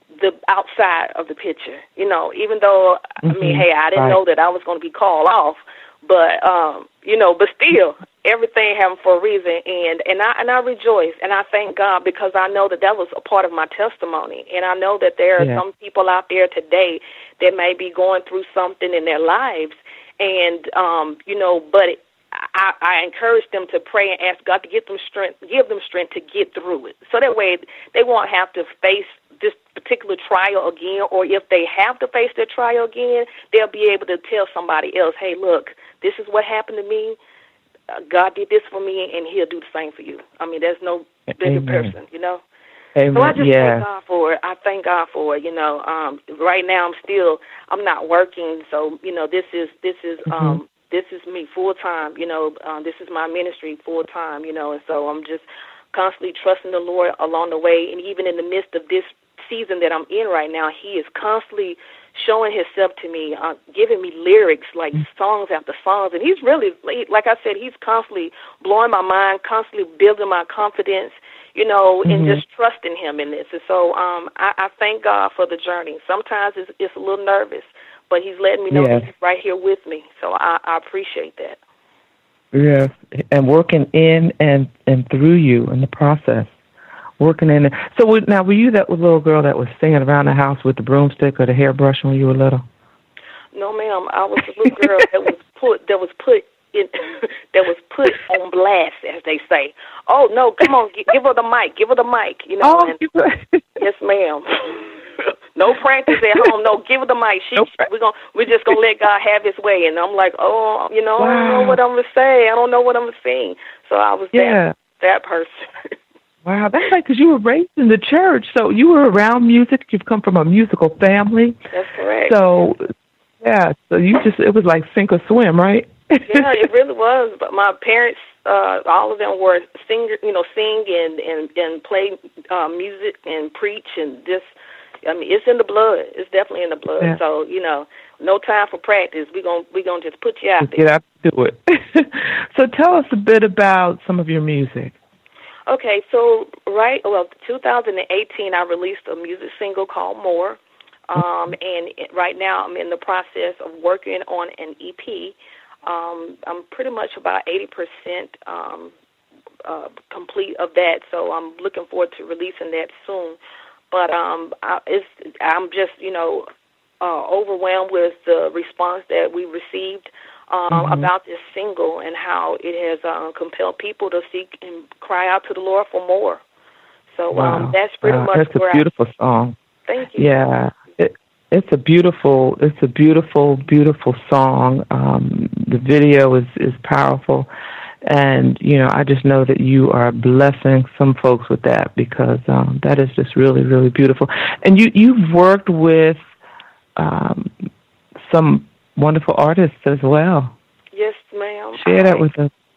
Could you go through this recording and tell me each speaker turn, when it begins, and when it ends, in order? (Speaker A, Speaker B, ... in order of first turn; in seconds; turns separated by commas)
Speaker A: 0.2-37.2, Speaker B: 3.2-4.2, Speaker B: 15.4-15.6, Speaker A: 37.9-42.4, Speaker B: 41.4-41.9, Speaker B: 43.0-43.9, Speaker A: 43.1-81.6, Speaker B: 50.3-50.6, Speaker B: 72.0-72.4, Speaker B: 78.7-79.1, Speaker B: 82.5-86.5, Speaker B: 87.2-92.6, Speaker A: 93.5-103.0, Speaker B: 102.6-103.8, Speaker A: 103.8-115.6, Speaker B: 106.1-106.5, Speaker B: 107.6-107.9, Speaker B: 111.2-111.8, Speaker B: 114.3-114.7, Speaker B: 116.5-121.6, Speaker A: 121.7-122.4, Speaker B: 122.3-122.8, Speaker B: 123.4-126.6, Speaker A: 126.3-134.4, Speaker A: 135.0-140.8, Speaker B: 140.6-144.9, Speaker A: 145.7-158.9, Speaker A: 159.7-163.4, Speaker A: 163.9-166.5, Speaker A: 167.0-176.4, Speaker B: 170.7-171.1, Speaker A: 177.1-178.9, Speaker B: 177.3-179.6, Speaker A: 179.9-180.5, Speaker B: 180.2-187.5, Speaker B: 188.1-196.2, Speaker B: 197.0-197.5, Speaker B: 198.3-200.5, Speaker A: 200.9-202.3, Speaker B: 201.8-202.5